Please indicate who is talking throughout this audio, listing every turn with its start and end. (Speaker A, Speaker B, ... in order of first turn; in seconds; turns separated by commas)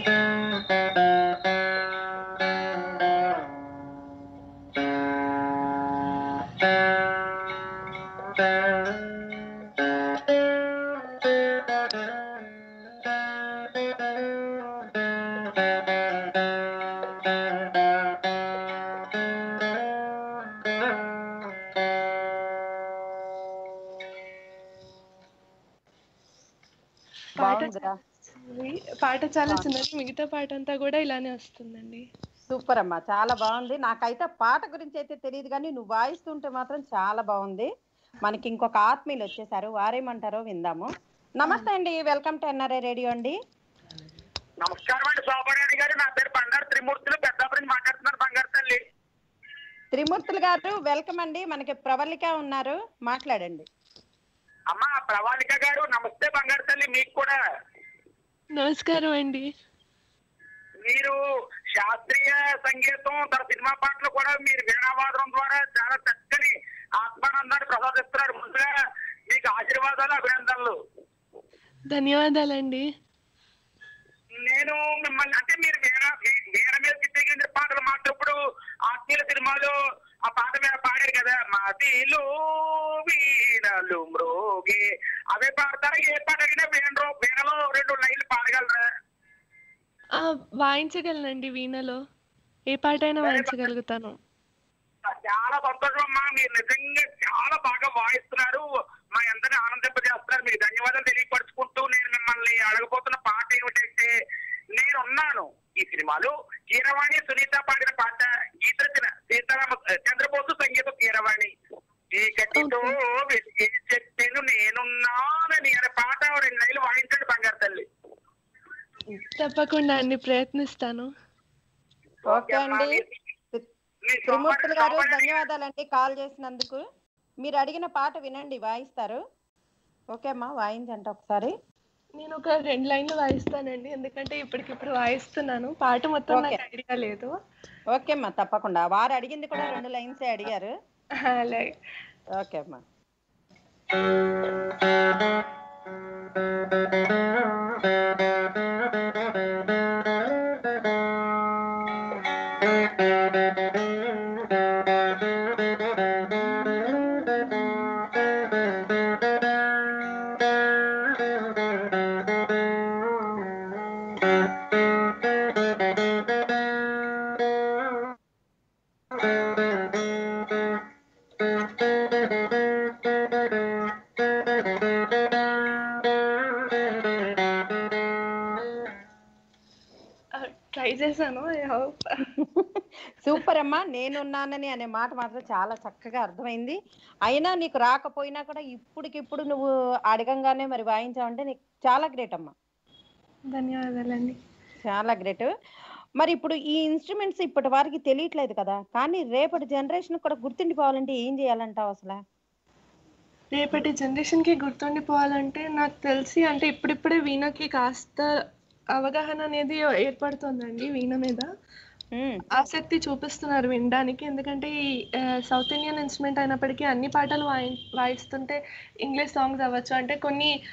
Speaker A: 27.4-27.9, Speaker B: 27.4-32.0, Speaker A: 32.5-37.7, Speaker A: 38.2-40.9, Speaker A: 41.4-43.4, Speaker C: 44.6-48.8, Speaker A: 49.9-53.6, Speaker C: 54.7-57.4, Speaker B: 58.5-59.5, Speaker C: 60.9-61.1, Speaker C: 61.8-68.7, Speaker C: 69.3-70.8, Speaker B: 71.9-72.8, Speaker C: 74.4-78.3, Speaker C: 78.9-79.7, Speaker C: 80.3-88.8, Speaker B: 90.2-92.0, Speaker B: 92.7-94.2, Speaker C: 93.2-93.6, Speaker C: 95.0-98.6, Speaker C: 99.2-104.1, Speaker C: 104.8-111.5, Speaker C: 112.1-117.8, Speaker B: 119.2-121.1, Speaker A: 122.3-123.0, Speaker C: 122.3-123.1, Speaker C: 124.0-125.4, Speaker A: 124.3-126.8, Speaker A: 127.4-129.2, Speaker A: 130.1-131.5, Speaker B: 132.2-137.3, Speaker A: 136.3-136.6, Speaker A: 137.9-140.7, Speaker B: 141.2-141.7, Speaker A: 142.4-142.8, Speaker B: 180.4-182.1, Speaker A: 182.4-192.5, Speaker B: 193.5-194.4, Speaker A: 194.9-195.5, Speaker A: 196.2-202.2, Speaker B: 203.5-208.3, Speaker B: 208.9-211.5, Speaker A: 212.2-212.4, Speaker B: 212.5-214.7, Speaker B: 215.5-220.5